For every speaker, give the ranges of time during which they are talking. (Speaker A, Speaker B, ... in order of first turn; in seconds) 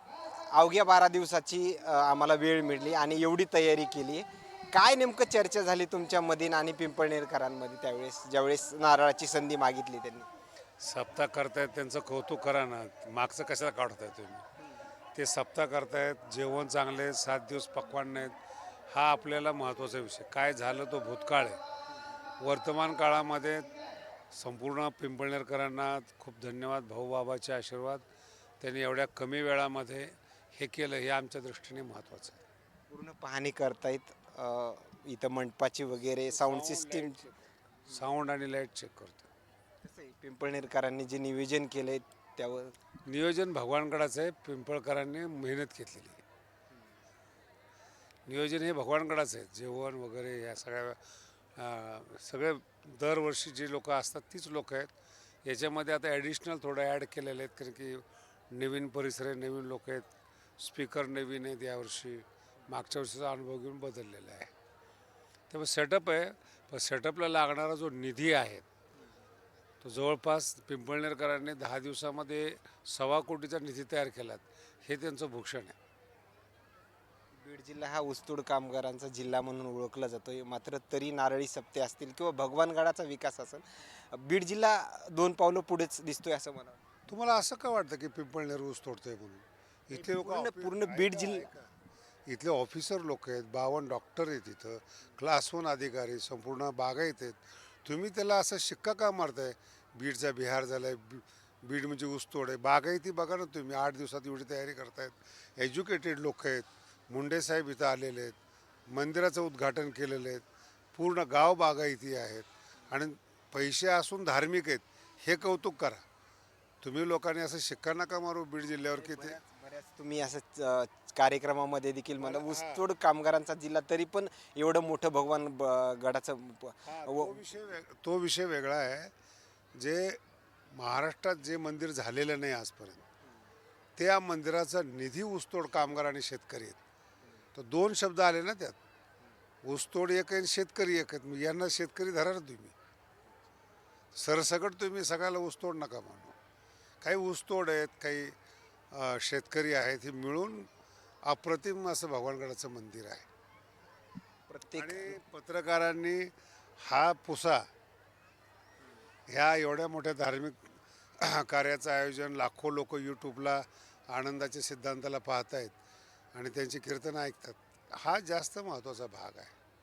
Speaker A: 0.5-10.3, 32.9-37.2, 39.8-42.8, 77.3-86.8, 89.9-91.5, 118.9-127.4, 154.5-155.2
Speaker B: 10.8-14.4, 15.1-18.4, 18.9-21.6, 22.4-23.7, 24.3-28.0, 28.6-32.4, 36.3-39.3, 43.0-46.2, 48.3-51.0, 51.5-54.9, 55.4-64.5, 65.5-68.7, 69.8-75.8, 87.1-91.7, 92.3-108.4, 108.9-110.4, 111.0-116.0, 116.8-119.4, 122.2-122.8, 126.8-129.1, 129.8-130.2, 130.7-133.1, 134.0-136.8, 137.6-138.8, 139.6-142.7, 144.2-146.3, 147.0-148.3, 148.9-150.7, 151.2-153.3, 154.8-157.7, 159.3-165.8, 166.3-169.5